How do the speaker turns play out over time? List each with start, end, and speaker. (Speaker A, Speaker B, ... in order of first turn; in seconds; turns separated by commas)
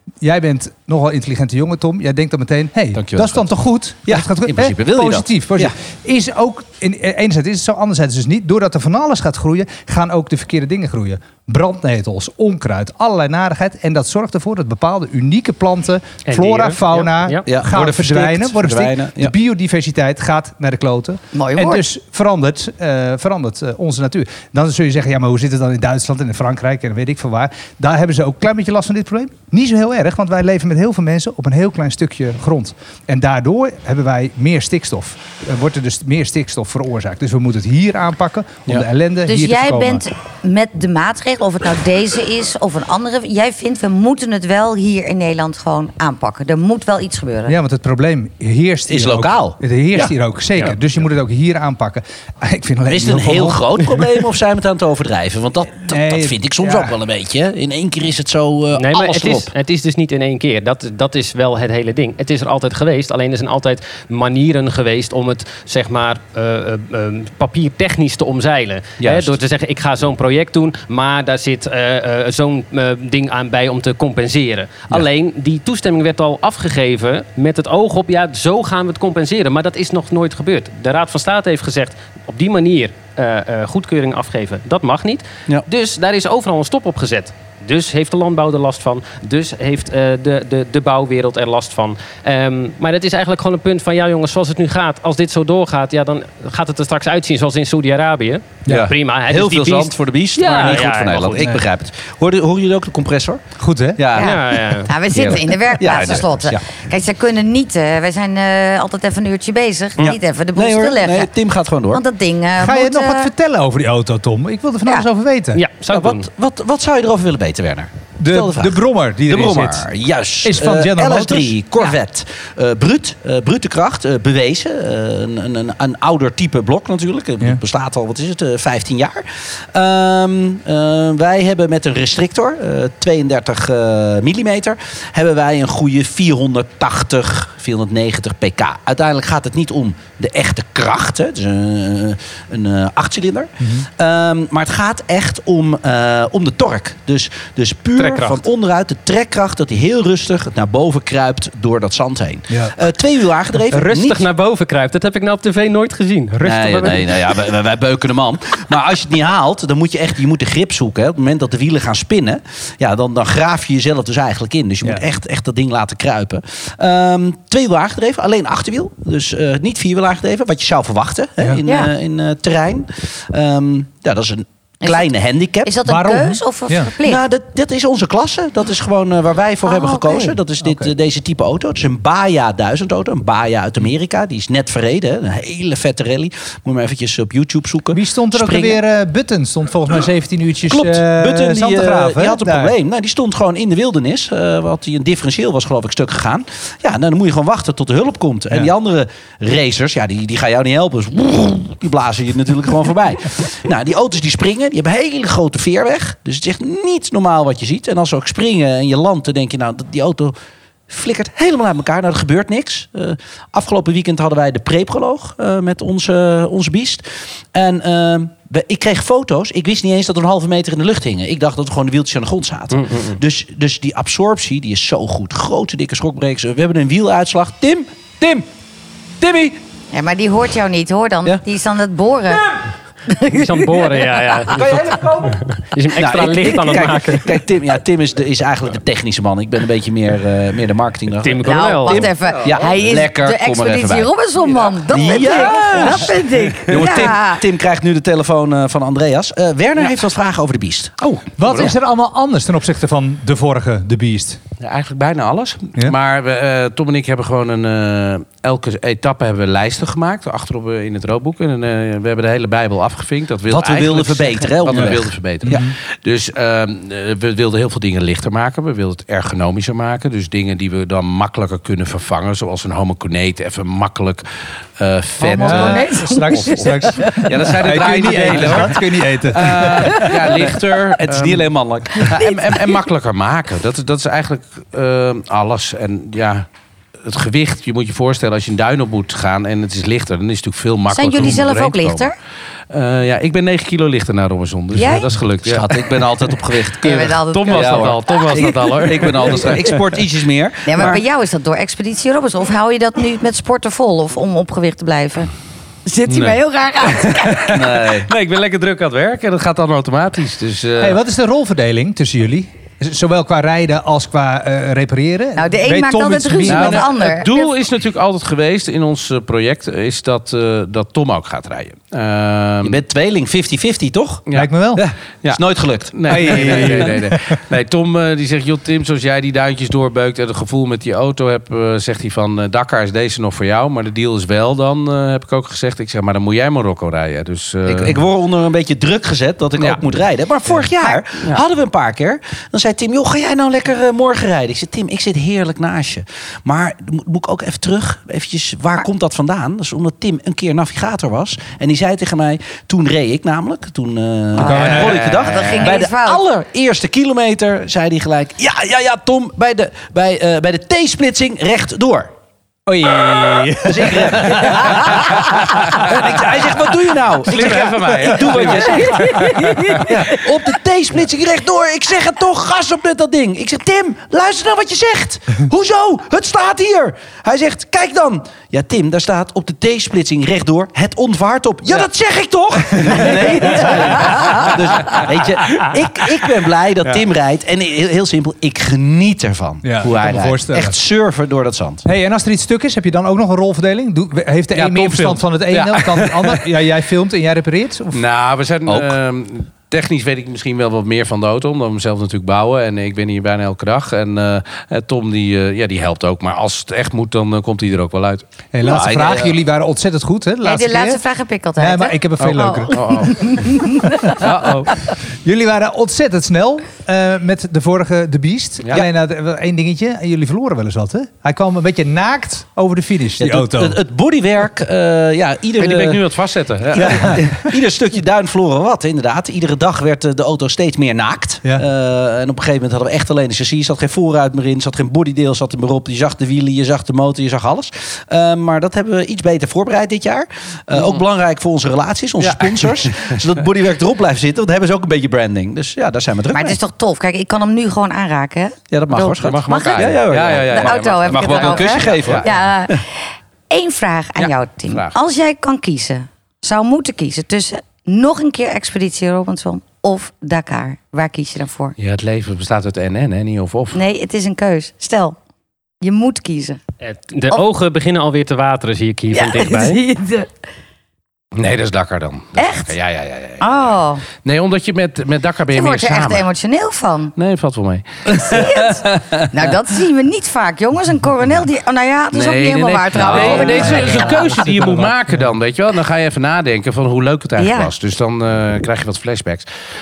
Speaker A: 0.2-40.0, Speaker B: 3.0-3.4, Speaker B: 4.1-5.7, Speaker C: 16.3-17.4, Speaker B: 17.5-19.3, Speaker D: 21.3-21.8, Speaker D: 39.3-47.6, Speaker A: 47.5-54.2, Speaker B: 48.9-50.1, Speaker B: 52.9-59.5, Speaker A: 55.9-57.0, Speaker C: 58.7-101.4, Speaker B: 69.0-69.3, Speaker B: 98.7-103.4, Speaker A: 101.4-101.6, Speaker A: 103.6-104.1, Speaker B: 104.0-106.7, Speaker D: 104.1-111.3, Speaker C: 104.2-104.9, Speaker B: 110.0-112.0, Speaker D: 111.9-113.3, Speaker A: 112.6-115.6, Speaker C: 115.5-116.3, Speaker B: 115.9-154.3, Speaker A: 118.2-119.9, Speaker A: 120.4-121.6, Speaker A: 143.6-143.9, Speaker C: 148.0-148.4, Speaker A: 152.5-152.8, Speaker C: 153.7-157.2, Speaker B: 156.4-175.8, Speaker D: 171.7-171.9, Speaker D: 174.8-177.2, Speaker A: 175.8-176.9, Speaker B: 177.0-188.8, Speaker D: 179.7-180.4, Speaker A: 180.6-180.9, Speaker A: 187.9-192.8, Speaker B: 190.7-210.3, Speaker B: 210.9-228.5, Speaker C: 222.8-223.2, Speaker B: 229.2-229.6, Speaker D: 229.9-232.6, Speaker D: 233.1-234.2, Speaker C: 233.3-234.7, Speaker B: 234.5-235.4, Speaker E: 234.6-235.3, Speaker C: 235.5-237.3, Speaker B: 236.0-244.1, Speaker C: 241.2-242.1, Speaker D: 241.4-247.4, Speaker E: 242.3-242.7, Speaker E: 244.5-246.2, Speaker B: 244.9-251.7, Speaker A: 251.4-254.4, Speaker E: 254.6-274.2, Speaker B: 263.5-265.7, Speaker A: 265.4-265.7, Speaker E: 274.8-278.8, Speaker D: 275.2-277.2, Speaker A: 275.3-280.1, Speaker B: 277.3-282.8, Speaker E: 279.5-286.5, Speaker E: 287.0-292.1, Speaker D: 290.9-292.1, Speaker E: 292.7-296.3, Speaker D: 294.8-295.1, Speaker B: 295.4-301.0, Speaker D: 296.8-298.5, Speaker E: 297.3-299.6, Speaker C: 297.3-299.1, Speaker D: 300.6-305.3, Speaker D: 305.9-307.7, Speaker E: 306.1-311.0, Speaker B: 307.5-308.1, Speaker A: 310.8-316.9, Speaker D: 315.4-317.5, Speaker E: 316.5-322.8, Speaker B: 322.6-326.9, Speaker A: 324.4-324.8, Speaker E: 325.2-338.0, Speaker A: 326.1-327.3, Speaker B: 337.7-362.1, Speaker A: 354.4-355.0, Speaker E: 354.4-355.8, Speaker D: 354.4-356.2, Speaker A: 362.7-366.1, Speaker B: 363.6-369.3, Speaker E: 364.7-365.1, Speaker E: 365.7-366.0, Speaker E: 367.2-369.4, Speaker A: 367.4-368.4, Speaker B: 369.8-391.8, Speaker A: 382.7-384.9, Speaker A: 389.6-390.8, Speaker A: 391.9-398.0, Speaker E: 394.5-396.4, Speaker E: 397.9-408.2, Speaker B: 398.7-398.9, Speaker A: 408.5-411.0, Speaker B: 408.6-409.4, Speaker D: 410.4-414.2, Speaker A: 411.6-414.3, Speaker E: 412.2-413.7, Speaker E: 414.2-414.7, Speaker A: 415.2-423.8, Speaker B: 423.2-426.0, Speaker E: 425.6-427.3, Speaker B: 426.7-446.6, Speaker A: 426.8-427.2, Speaker E: 442.2-443.2, Speaker D: 446.3-461.8, Speaker B: 448.7-452.8, Speaker E: 449.0-452.3, Speaker E: 454.2-454.9, Speaker E: 461.8-463.8, Speaker D: 463.7-465.2, Speaker D: 465.8-466.6, Speaker C: 466.8-469.8, Speaker D: 469.1-470.3, Speaker E: 471.4-473.6, Speaker D: 472.4-472.8, Speaker D: 473.4-474.0, Speaker E: 474.2-476.3, Speaker D: 475.5-477.1, Speaker E: 477.2-478.5, Speaker D: 478.2-484.4, Speaker E: 482.1-489.5, Speaker A: 483.4-485.2, Speaker D: 487.4-487.7